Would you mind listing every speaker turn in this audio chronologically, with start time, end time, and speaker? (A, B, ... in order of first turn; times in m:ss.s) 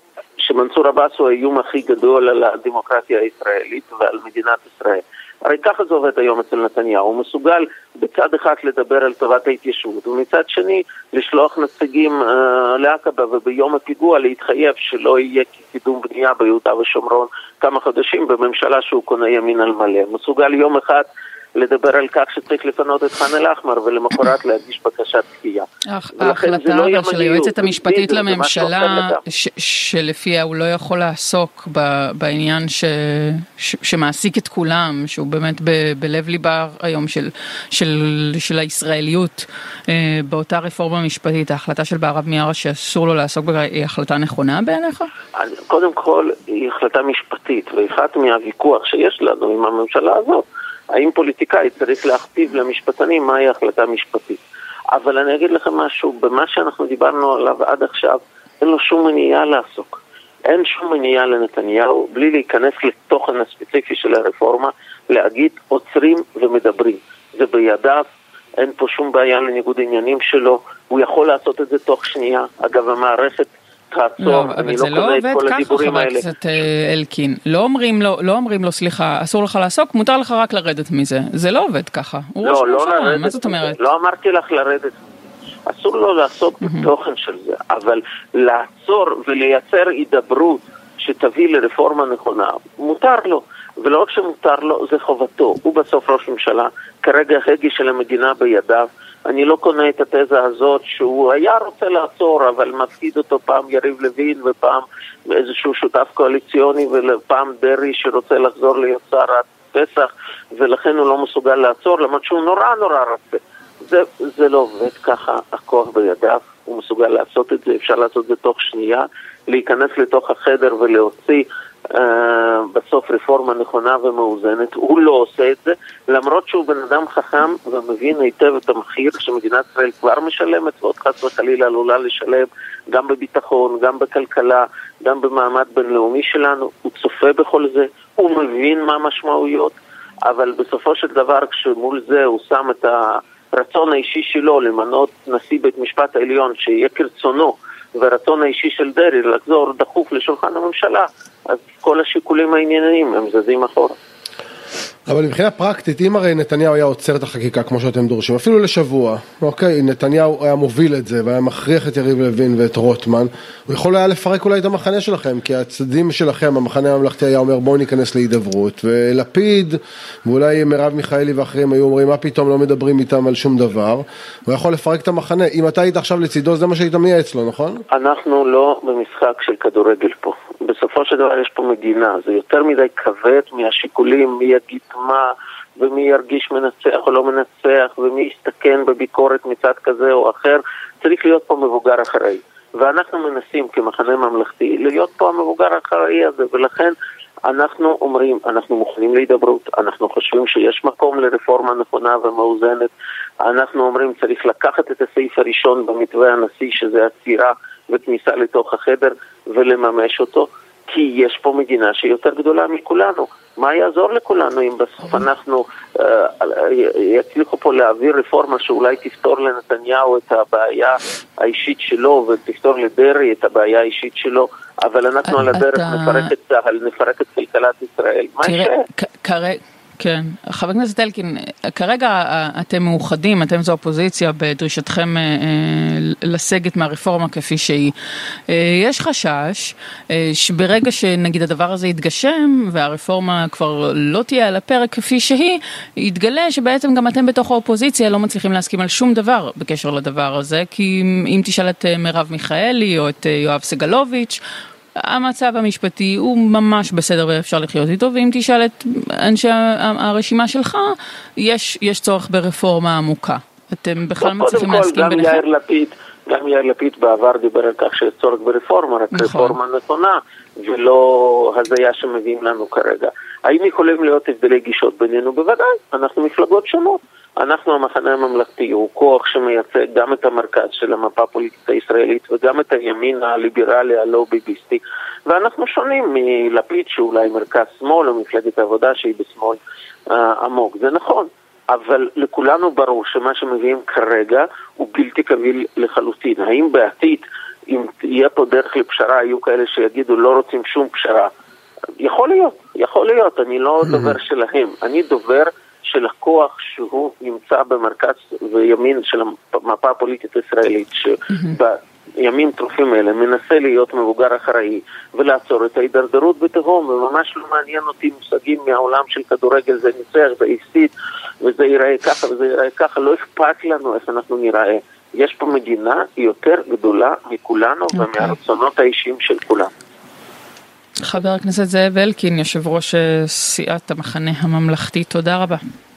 0:00.4-0:25.7 A
0:25.9-0:45.1 B
0:26.2-0:29.2 A
0:45.4-0:54.4 A
0:54.9-1:08.0 A
1:08.6-1:16.2 A
1:14.2-1:23.8 B
1:22.4-1:25.1 A
1:25.7-2:19.8 A
1:26.6-1:26.9 B
2:20.3-2:34.0 A
2:35.1-2:57.8 C
2:57.9-3:17.0 A
3:17.5-3:22.9 A
3:23.4-3:48.8 A
3:45.3-3:46.3 B
3:48.4-3:57.9 B
3:58.5-4:14.4 B
4:15.0-4:25.4 B
4:24.2-5:01.3 A
4:29.1-4:29.6 B
5:02.0-5:29.7 A
5:28.0-5:28.4 B
5:31.0-5:35.6 B